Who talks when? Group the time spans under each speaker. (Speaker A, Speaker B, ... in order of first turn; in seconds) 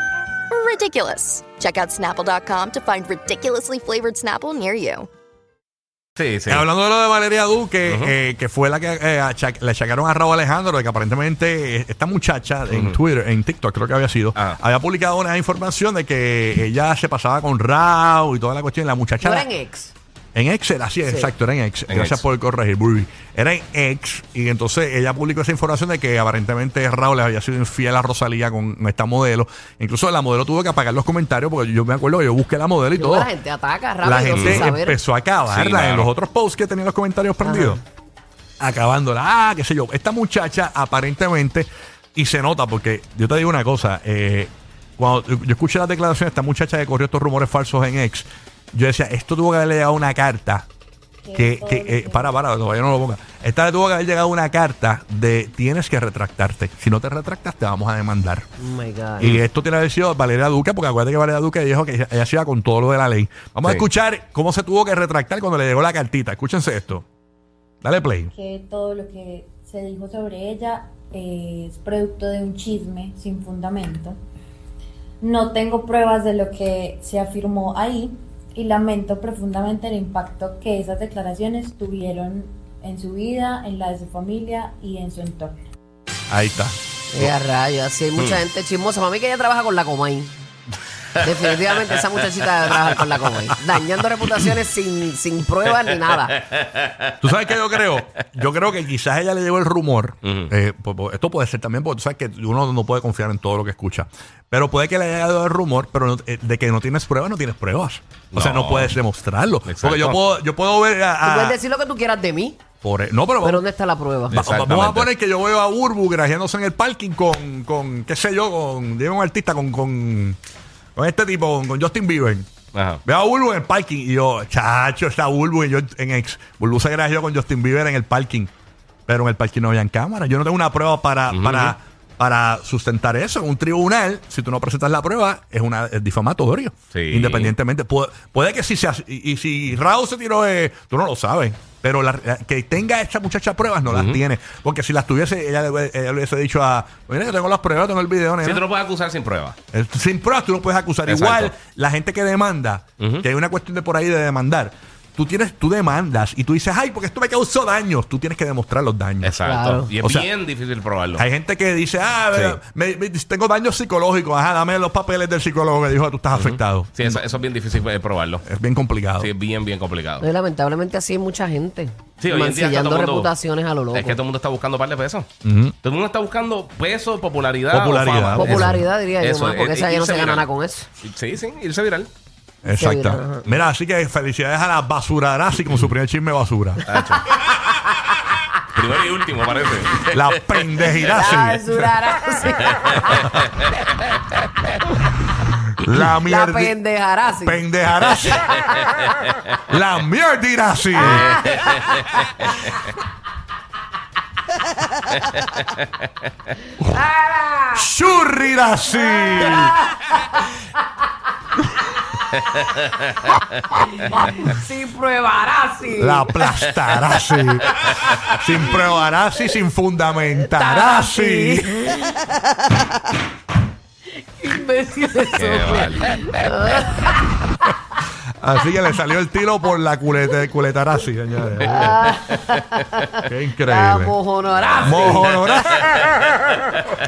Speaker A: 0.5-5.1
Speaker B: 6.2-6.7, 7.9-8.2, 12.7-13.0, 21.9-22.2, 34.3-34.7, 35.5-36.1, 92.7-93.2, 96.0-97.1, 100.2-100.5, 108.3-109.0, 109.7-110.2, 114.3-115.1, 122.7-123.0, 131.3-131.8, 136.9-137.5, 143.9-144.2, 148.4-149.6, 151.1-151.5, 159.2-161.2, 162.3-162.6, 166.3-168.4, 169.2-170.3, 172.2-173.3, 173.9-175.3, 175.8-180.5, 181.0-182.1, 186.9-191.1, 212.6-213.6, 217.7-218.1, 225.3-226.6, 231.8-232.4, 234.5-236.2
Speaker C: 6.5-19.5, 20.4-33.3, 34.0-37.8, 38.6-50.7, 51.4-58.5, 59.2-67.0, 67.8-68.3, 86.3-87.3, 97.2-111.6, 112.8-113.6, 114.3-120.4, 121.0-122.5, 123.0-128.5, 129.1-148.6, 149.7-159.4, 160.0-160.3, 161.2-167.2, 168.4-169.3, 175.4-175.8, 177.7-178.8, 182.6-186.8, 190.1-191.9, 195.4-196.8, 197.4-198.7, 199.7-201.3, 207.7-209.8, 215.9-221.8, 228.4-232.2, 233.2-234.2, 234.8-236.1
Speaker D: 19.2-19.9, 21.1-21.3, 33.0-35.0, 37.4-37.8, 58.6-59.4, 87.1-90.5, 91.2-96.4, 111.2-112.6, 113.4-114.4, 159.4-159.9, 170.2-174.2, 178.4-180.9, 182.7-183.5, 187.6-188.1, 191.0-193.3, 196.3-197.6, 200.9-202.7, 206.8-207.9, 209.0-210.6, 213.7-216.4, 220.3-222.8, 224.2-227.4, 231.6-235.5
Speaker E: 51.2-52.4, 68.3-74.2, 75.2-85.6